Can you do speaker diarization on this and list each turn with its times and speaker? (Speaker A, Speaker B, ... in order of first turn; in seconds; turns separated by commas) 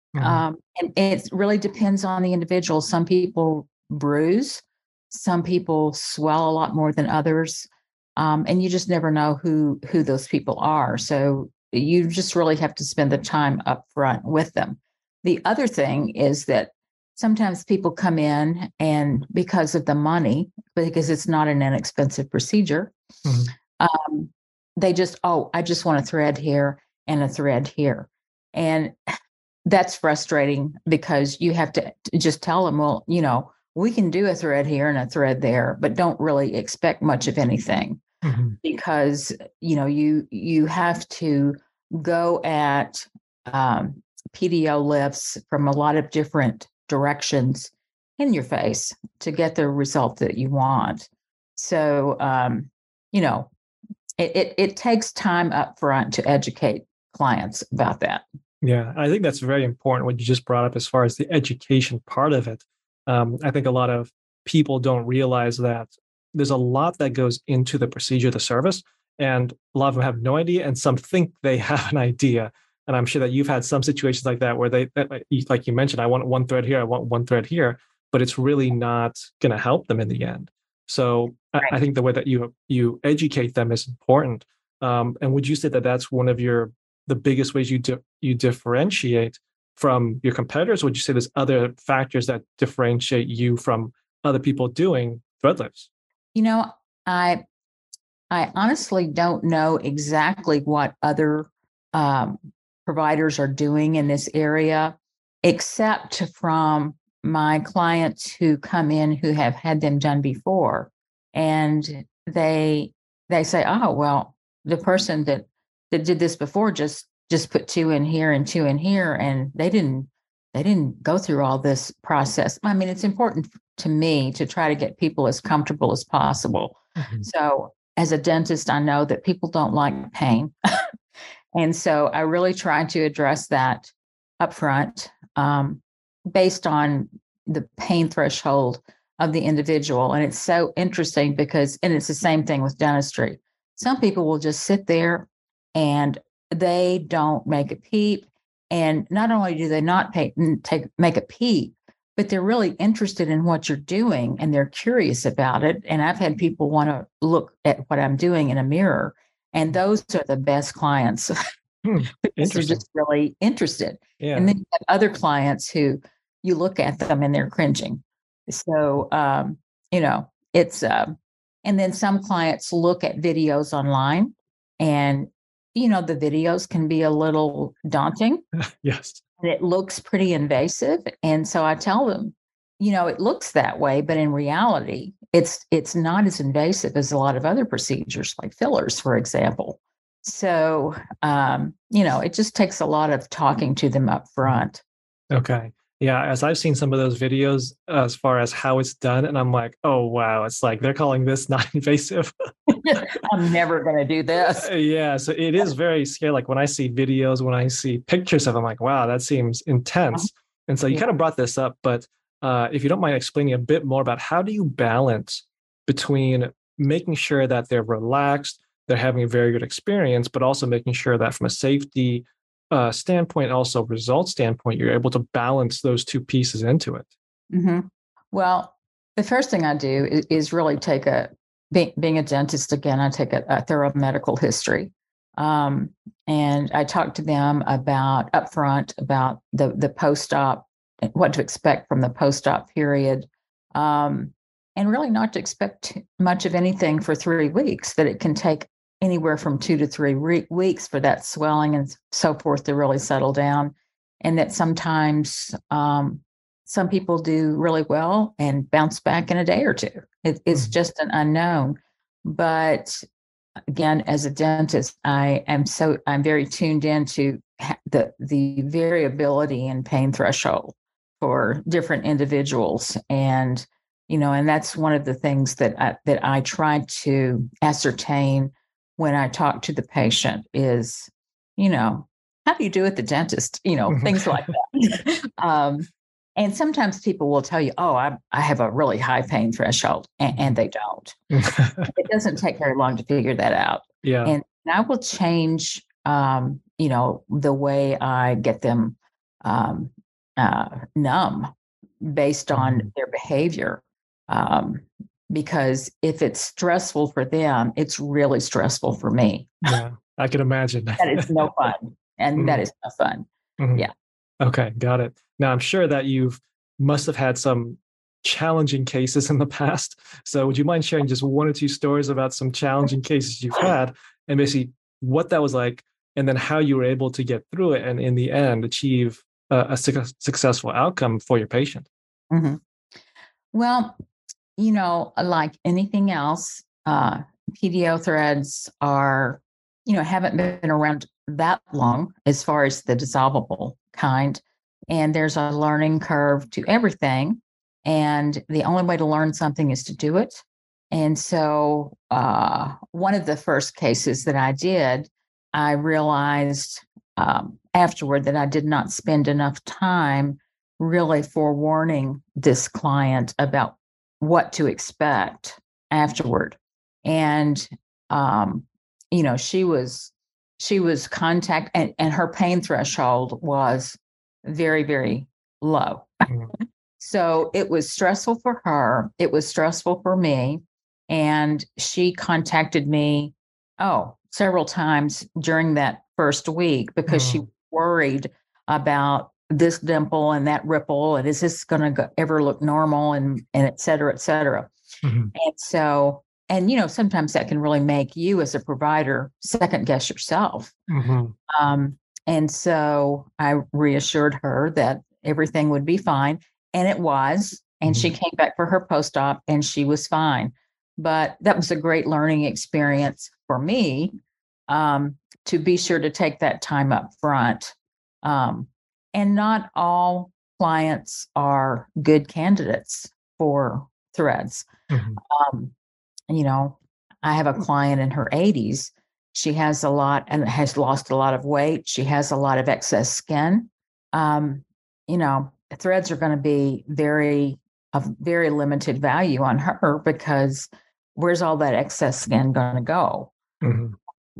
Speaker A: 0.1-0.4, Speaker B: 0.2-22.9, Speaker A: 23.2-23.5, Speaker B: 23.8-28.9, Speaker B: 29.6-38.0, Speaker A: 38.2-38.5, Speaker B: 38.6-53.5, Speaker B: 54.2-58.2, Speaker A: 58.6-95.9, Speaker B: 96.3-97.4, Speaker B: 98.3-130.5, Speaker A: 127.0-127.2, Speaker B: 131.5-161.3, Speaker A: 161.8-162.8, Speaker B: 162.2-178.4, Speaker A: 164.2-164.5, Speaker A: 178.7-179.2, Speaker B: 179.4-194.8, Speaker A: 195.3-202.3, Speaker B: 202.7-204.7, Speaker A: 204.6-227.1, Speaker B: 227.5-263.0, Speaker B: 263.7-291.1, Speaker A: 291.3-291.9, Speaker B: 291.9-301.5, Speaker A: 294.0-294.3, Speaker B: 302.0-309.7, Speaker A: 302.5-302.9, Speaker A: 309.6-311.3, Speaker B: 311.0-313.9, Speaker A: 313.6-313.8, Speaker A: 314.4-331.9, Speaker B: 332.3-332.6, Speaker B: 333.5-333.9, Speaker B: 334.6-376.3, Speaker B: 377.0-394.7, Speaker A: 387.1-387.4, Speaker A: 395.0-395.3, Speaker B: 395.3-400.7, Speaker A: 400.9-401.3, Speaker B: 401.5-414.1, Speaker B: 414.7-424.7, Speaker A: 424.9-425.2, Speaker B: 425.2-425.7, Speaker B: 426.3-443.3, Speaker A: 443.6-443.9